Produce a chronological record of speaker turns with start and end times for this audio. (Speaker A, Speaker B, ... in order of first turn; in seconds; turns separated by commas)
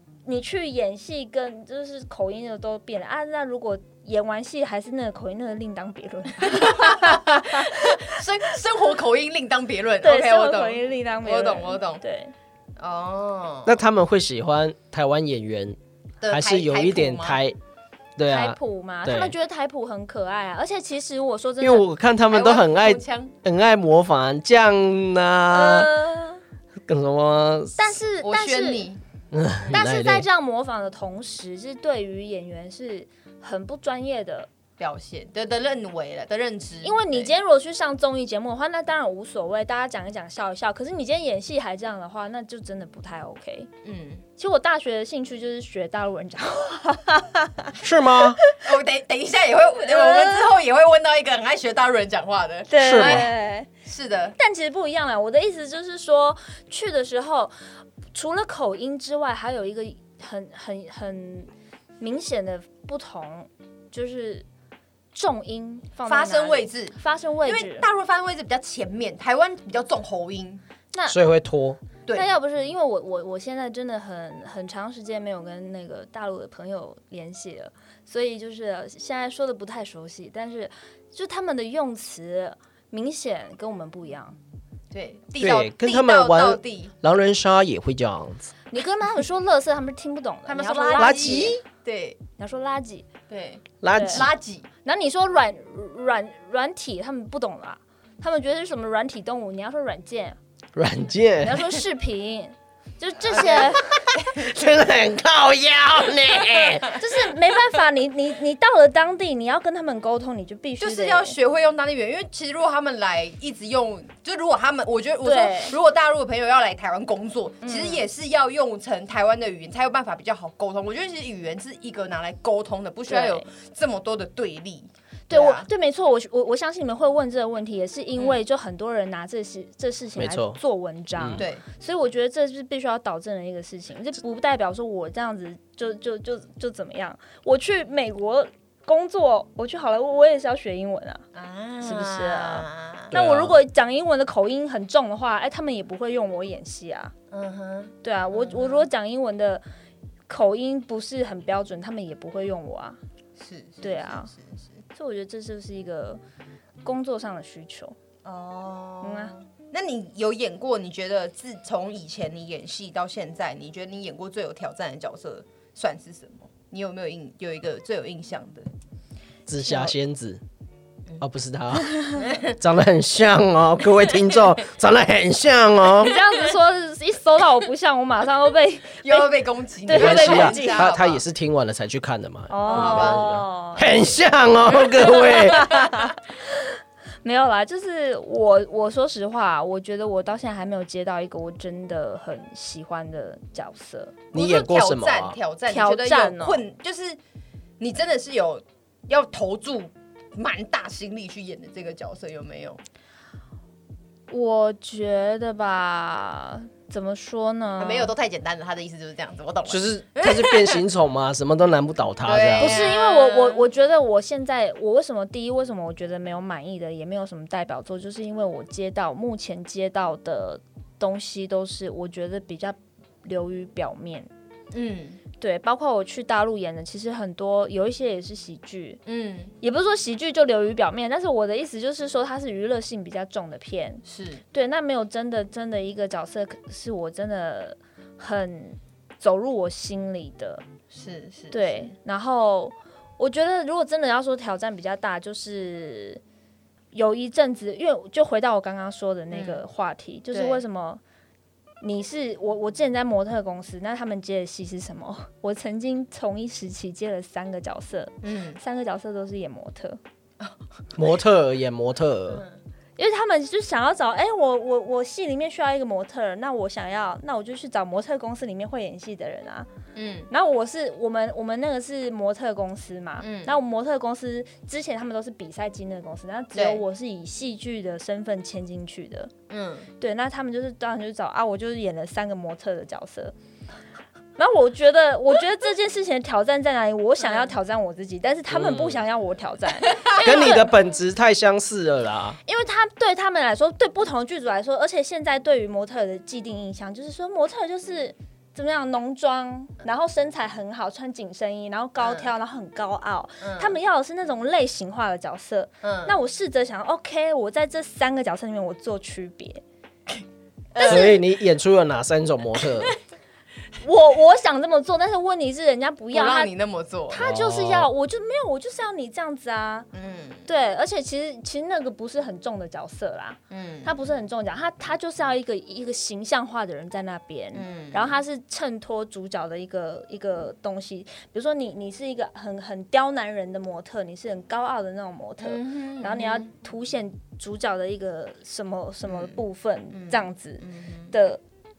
Speaker A: 0.3-8.2, Speaker B: 6.4-12.0, Speaker A: 10.0-12.3, Speaker B: 12.8-13.7, Speaker C: 13.7-15.8, Speaker B: 16.2-17.4, Speaker C: 16.3-17.6, Speaker C: 18.2-19.3, Speaker A: 18.3-21.8, Speaker C: 21.6-25.9, Speaker B: 22.3-23.3, Speaker A: 25.5-26.4, Speaker C: 26.9-27.8, Speaker A: 27.8-28.9, Speaker B: 28.2-29.0, Speaker C: 29.3-30.2, Speaker A: 29.7-34.5, Speaker B: 34.8-37.3, Speaker A: 36.8-43.7, Speaker B: 43.8-44.2, Speaker A: 44.4-47.8, Speaker C: 47.8-48.4, Speaker B: 48.6-53.3, Speaker A: 49.8-50.5, Speaker A: 52.7-53.7, Speaker C: 52.8-53.3, Speaker B: 53.8-54.4, Speaker A: 54.4-57.5, Speaker A: 58.1-64.5, Speaker A: 65.1-67.9, Speaker B: 66.1-70.6, Speaker A: 70.9-71.2, Speaker C: 71.1-71.8, Speaker A: 72.1-84.4, Speaker B: 84.9-86.9, Speaker C: 85.4-88.5, Speaker A: 88.7-91.6, Speaker B: 90.5-92.2, Speaker C: 91.0-91.6, Speaker A: 92.4-93.1, Speaker B: 93.3-94.7, Speaker C: 93.8-94.3, Speaker A: 93.9-94.3, Speaker A: 94.8-100.4, Speaker C: 100.8-101.7, Speaker A: 101.4-103.9, Speaker B: 103.3-104.5, Speaker C: 104.2-107.0, Speaker A: 106.9-111.3, Speaker B: 110.8-125.7, Speaker A: 115.2-115.7, Speaker A: 117.6-118.0, Speaker A: 123.1-123.5, Speaker A: 125.3-141.2, Speaker C: 130.2-130.6, Speaker C: 131.2-131.4, Speaker B: 131.4-131.6, Speaker B: 141.3-143.1, Speaker A: 141.8-147.1, Speaker C: 143.1-143.6, Speaker B: 147.3-148.9, Speaker A: 148.0-149.6, Speaker A: 150.3-153.0, Speaker B: 153.4-154.8, Speaker A: 153.8-154.3, Speaker A: 154.9-156.2, Speaker A: 156.8-158.0, Speaker B: 158.2-168.7, Speaker A: 159.0-159.3, Speaker C: 169.5-170.4, Speaker A: 169.7-169.9, Speaker C: 171.2-176.1, Speaker B: 172.2-172.6, Speaker A: 176.0-179.3, Speaker B: 179.0-181.2, Speaker A: 179.9-180.9, Speaker C: 179.9-186.0, Speaker A: 182.5-184.0, Speaker B: 182.7-183.2, Speaker B: 184.7-185.9, Speaker A: 185.0-186.7, Speaker A: 187.2-194.2, Speaker B: 194.3-197.2, Speaker C: 194.3-195.4, Speaker A: 195.7-196.6, Speaker B: 197.8-202.8, Speaker A: 204.3-208.1, Speaker B: 207.8-210.8, Speaker C: 209.7-212.8, Speaker B: 212.2-213.7, Speaker A: 212.6-224.3, Speaker B: 224.7-225.2, Speaker A: 225.4-229.0, Speaker B: 229.1-229.5, Speaker A: 229.6-234.0, Speaker B: 234.1-234.4, Speaker A: 234.5-240.6, Speaker B: 240.9-241.9, Speaker A: 241.5-246.2, Speaker A: 246.9-251.0, Speaker B: 249.3-249.6, Speaker B: 250.3-250.6, Speaker A: 251.8-260.0, Speaker B: 258.2-258.6, Speaker C: 260.9-262.4, Speaker B: 262.3-262.6, Speaker A: 263.0-269.7, Speaker B: 269.9-270.3, Speaker A: 270.3-279.3, Speaker B: 273.2-273.6, Speaker B: 276.6-276.8, Speaker B: 279.5-279.9, Speaker A: 280.0-283.3, Speaker A: 284.4-290.8, Speaker C: 288.5-289.0, Speaker B: 289.9-290.1, Speaker C: 290.2-292.4, Speaker A: 292.5-309.6, Speaker B: 302.0-302.3, Speaker B: 303.4-303.8, Speaker B: 305.8-306.2, Speaker B: 310.7-311.2, Speaker A: 310.8-311.2, Speaker C: 310.8-312.9, Speaker A: 313.8-316.5, Speaker B: 316.1-317.2, Speaker A: 317.1-319.9, Speaker C: 317.1-317.9, Speaker B: 319.9-320.5, Speaker A: 320.5-341.4, Speaker B: 323.5-324.0, Speaker B: 327.5-328.2, Speaker B: 335.4-336.5, Speaker B: 339.1-339.4, Speaker B: 339.9-341.1